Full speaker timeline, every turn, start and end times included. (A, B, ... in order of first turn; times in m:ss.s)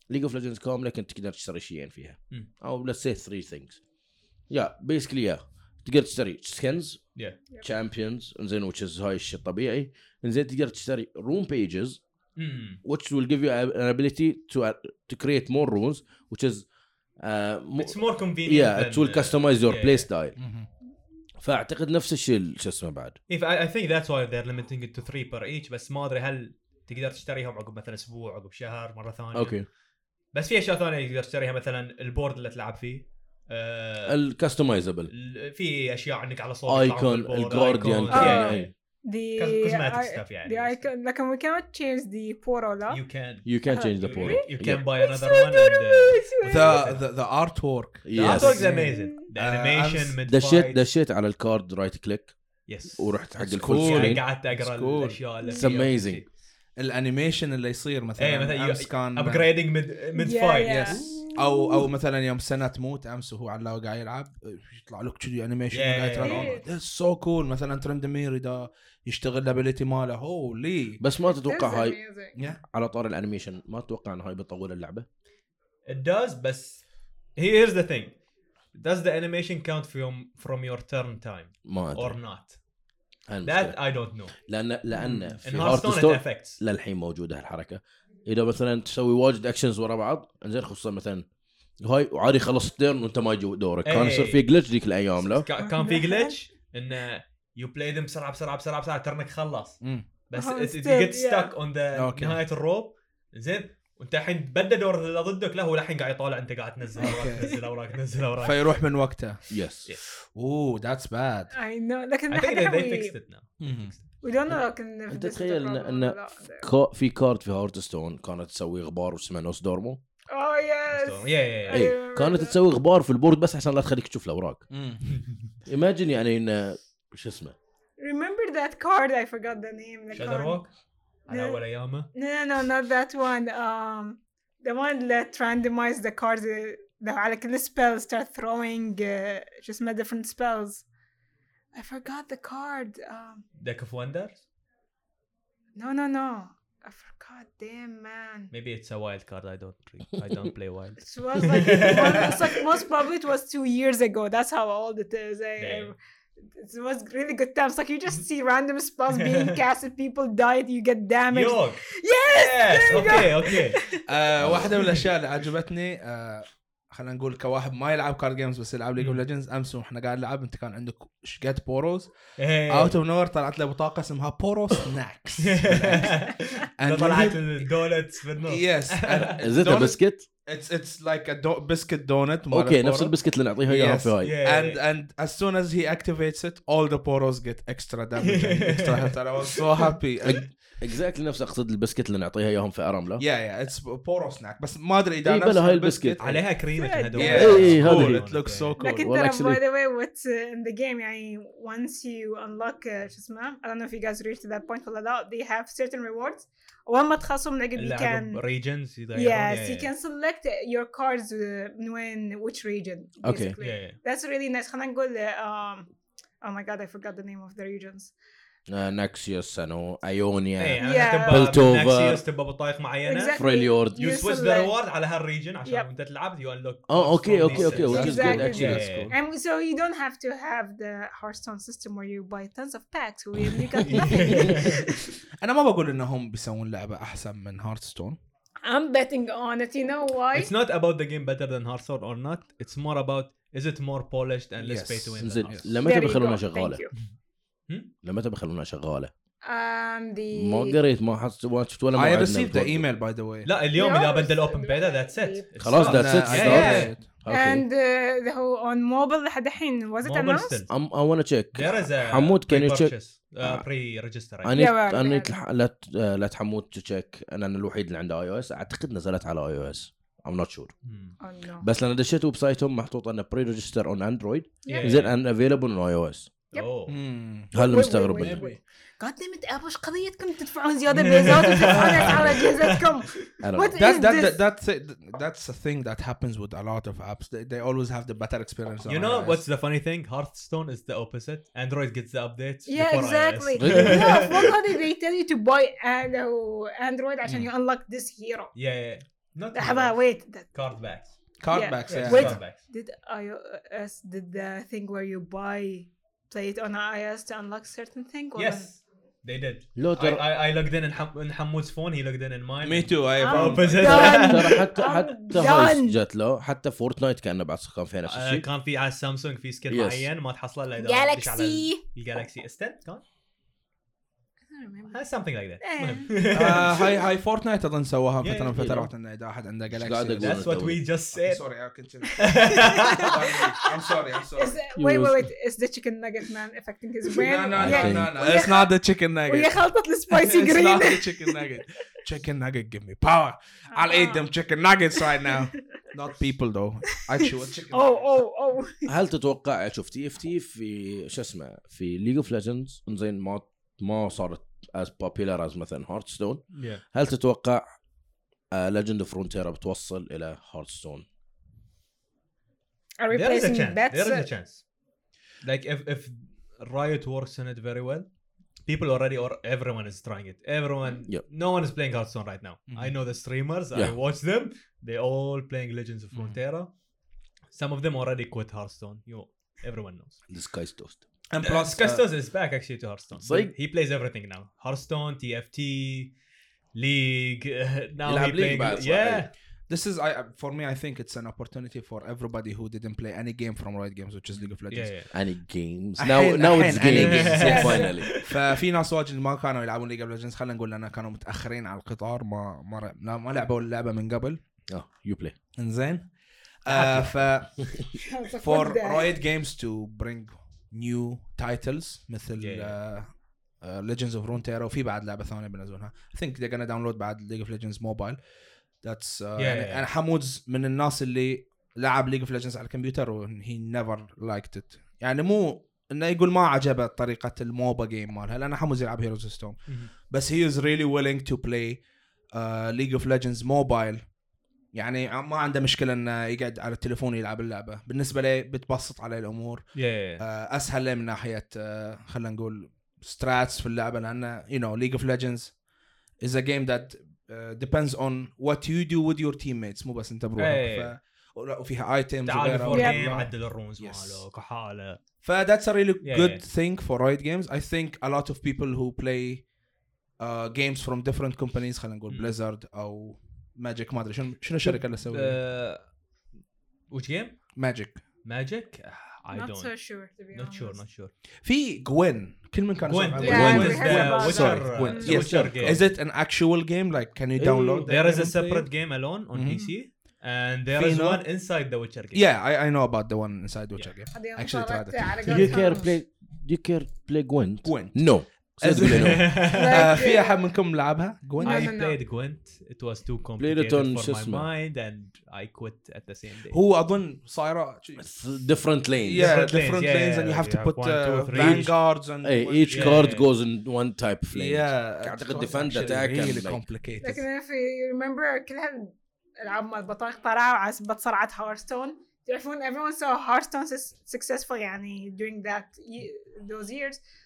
0:00.1-0:03.8 A
0:04.5-0:07.1 A
0:07.6-0:12.0 A
0:12.4-0:12.8 B
0:12.8-0:16.7 A
0:17.2-0:20.4 A
0:17.8-0:20.1 B
0:20.4-0:20.7 C
0:21.4-0:23.2 A
0:23.3-0:29.6 B
0:29.3-0:29.7 A
0:30.3-0:34.2 B
0:34.1-0:35.1 A
0:35.1-0:38.7 B
0:36.7-0:38.7 A
0:38.1-0:43.0 D
0:39.4-0:40.8 B
0:42.9-0:47.0 B
0:43.4-0:44.8 A
0:43.7-0:44.5 D
0:45.0-0:46.8 D
0:46.4-0:50.2 C
0:48.0-0:48.6 A
0:48.2-0:50.8 B
0:48.8-0:49.3 D
0:50.2-0:52.4 A
0:52.7-0:56.3 B
0:52.9-0:54.2 A
0:53.4-0:55.9 C
0:55.5-0:56.2 A
0:56.8-0:59.5 C
0:58.2-1:01.1 B
1:00.2-1:01.8 D
1:00.7-1:11.0 C
1:05.7-1:06.5 B
1:06.2-1:06.6 D
1:11.0-1:12.0 A
1:11.3-1:12.4 D
1:12.6-1:15.1 A
1:15.9-1:16.8 B
1:17.4-1:18.2 B
1:18.7-1:22.6 B
1:21.7-1:22.2 A
1:23.3-1:31.3 A
1:23.4-1:24.4 B
1:25.0-1:26.6 B
1:31.8-1:35.5 A
1:33.8-1:34.4 B
1:35.3-1:48.8 B
1:35.6-1:36.4 D
1:40.3-1:41.5 D
1:41.9-1:42.4 C
1:47.0-1:47.6 C
1:47.0-1:47.4 D
1:48.4-1:49.4 C
1:49.5-1:49.9 A
1:50.3-1:51.5 C
1:51.5-1:53.2 D
1:52.3-1:54.0 B
1:53.6-1:53.9 C
1:54.2-1:56.7 D
1:55.1-2:00.0 A
2:00.3-2:02.6 D
2:00.9-2:01.9 B
2:01.7-2:04.7 A
2:04.7-2:05.1 C
2:05.7-2:07.6 A
2:08.0-2:10.6 D
2:10.1-2:10.7 B
2:11.3-2:12.1 B
2:11.3-2:11.6 D
2:12.1-2:20.9 D
2:21.7-2:23.4 D
2:23.6-2:24.4 B
2:25.8-2:28.5 D
2:28.5-2:32.6 B
2:31.0-2:44.0 D
2:35.6-2:35.9 B
2:39.1-2:39.6 B
2:41.3-2:43.8 B
2:42.9-2:52.2 C
2:44.4-2:45.0 A
2:49.0-2:49.2 B
2:52.4-2:53.0 B
2:52.7-2:57.6 C
2:55.4-2:59.4 B
2:58.4-3:10.6 C
2:59.4-3:00.3 A
3:02.5-3:04.4 A
3:04.2-3:04.8 B
3:08.2-3:09.8 B
3:10.2-3:13.2 A
3:13.2-3:16.4 C
3:15.2-3:16.4 A
3:16.2-3:18.8 B
3:16.8-3:17.6 D
3:17.2-3:19.1 C
3:17.2-3:18.3 A
3:18.8-3:28.4 D
3:18.9-3:19.6 A
3:27.8-3:29.9 B
3:29.1-3:35.9 D
3:33.2-3:33.6 A
3:33.6-3:34.0 B
3:36.4-3:38.1 D
3:38.7-3:42.2 A
3:40.6-3:49.1 B
3:40.8-3:41.6 D
3:43.0-3:44.8 D
3:43.4-3:44.0 A
3:46.9-3:49.2 A
3:47.4-3:48.8 C
3:47.9-3:55.0 D
3:53.8-3:54.9 B
3:55.4-3:58.2 C
3:58.6-4:00.5 D
4:00.3-4:05.6 B
4:04.6-4:05.7 C
4:05.2-4:06.8 A
4:05.8-4:06.9 D
4:08.0-4:09.1 A
4:09.4-4:10.8 D
4:10.3-4:12.9 A
4:11.9-4:13.5 C
4:13.4-4:16.9 B
4:13.7-4:15.5 D
4:15.6-4:17.7 A
4:15.8-4:17.0 C
4:16.4-4:20.6 D
4:20.0-4:20.7 B
4:20.7-4:23.7 A
4:21.5-4:24.6 B
4:24.4-4:30.7 A
4:24.5-4:25.3 D
4:30.8-4:31.2 B
4:31.2-4:31.7 D
4:31.6-4:36.3 A
4:34.6-4:35.0 D
4:34.7-4:35.1 B
4:36.5-4:37.0 B
4:36.9-4:38.6 C
4:37.5-4:38.4 A
4:37.5-4:44.4 D
4:40.9-4:43.2 B
4:43.4-4:43.8 A
4:43.8-4:49.4 C
4:48.8-4:54.6 B
4:52.7-4:58.5 D
4:53.6-4:54.3 A
4:58.5-5:01.1 B
4:59.5-5:00.5 D
5:01.4-5:02.4 C
5:01.5-5:08.7 D
5:01.9-5:02.6 B
5:08.4-5:14.6 B
5:09.8-5:10.2 A
5:12.6-5:14.2 C
5:13.2-5:16.0 D
5:13.8-5:18.5 A
5:18.1-5:23.0 B
5:19.7-5:20.1 A
5:20.8-5:21.8 D
5:24.5-5:25.0 D
5:24.9-5:27.0 B
5:25.6-5:26.2 D
5:26.3-5:30.5 C
5:28.2-5:28.8 B
5:28.6-5:28.9 A
5:29.7-5:30.8 A
5:30.2-5:31.5 B
5:31.1-5:34.6 C
5:32.2-5:33.4 B
5:32.7-5:33.1 D
5:34.4-5:38.8 D
5:34.8-5:35.3 A
5:37.2-5:48.1 C
5:37.6-5:38.3 A
5:39.3-5:41.4 D
5:43.7-5:44.3 D
5:47.7-5:48.9 D
5:48.9-5:57.6 A
5:56.5-5:56.8 B
5:58.5-6:01.1 A
6:03.0-6:04.3 D
6:03.1-6:04.6 B
6:05.4-6:08.1 B
6:08.7-6:16.7 B
6:12.7-6:13.0 C
6:16.1-6:16.4 C
6:17.5-6:20.2 B
6:20.3-6:21.0 A
6:21.3-6:22.0 C
6:21.4-6:26.2 B
6:23.2-6:23.5 A
6:26.7-6:29.3 B
6:28.0-6:29.3 A
6:29.7-6:35.1 C
6:34.7-6:35.1 B
6:35.1-6:38.2 A
6:36.0-6:44.4 C
6:36.8-6:38.4 B
6:37.4-6:37.9 D
6:44.7-6:45.4 A
6:45.6-6:46.1 C
6:46.6-6:47.9 C
6:46.7-6:47.2 B
6:48.0-6:49.1 D
6:48.4-6:58.2 C
6:52.4-6:52.8 B
6:58.8-7:14.1 C
6:59.4-6:59.9 B
7:09.7-7:09.9 B
7:14.7-7:25.6 C
7:19.7-7:20.2 B
7:26.2-7:34.2 C
7:30.4-7:30.9 B
7:32.2-7:35.0 B
7:32.7-7:33.2 D
7:35.2-7:39.5 C
7:36.0-7:36.4 B
7:40.2-7:45.4 C
7:42.1-7:42.4 B
7:44.6-7:45.9 B
7:46.9-7:47.6 B
7:47.6-7:48.0 C
7:48.2-7:51.1 B
7:49.3-7:50.8 D
7:51.4-7:58.7 C
7:52.8-7:55.8 B
7:53.2-7:55.2 D
7:53.3-7:53.8 A
7:55.0-7:55.8 A
7:57.4-7:57.9 A
7:57.8-8:02.3 B
7:59.3-7:59.8 C
8:00.7-8:01.2 C
8:02.1-8:05.7 C
8:04.1-8:06.0 D
8:05.3-8:09.4 A
8:07.6-8:11.8 C
8:08.9-8:10.0 B
8:09.5-8:10.4 D
8:11.4-8:12.0 D
8:11.4-8:16.6 B
8:13.4-8:14.5 A
8:16.5-8:18.1 C
8:18.0-8:19.4 A
8:19.0-8:23.1 C
8:19.2-8:21.8 B
8:21.3-8:26.6 A
8:22.7-8:23.3 B
8:24.3-8:27.2 C
8:27.0-8:37.0 D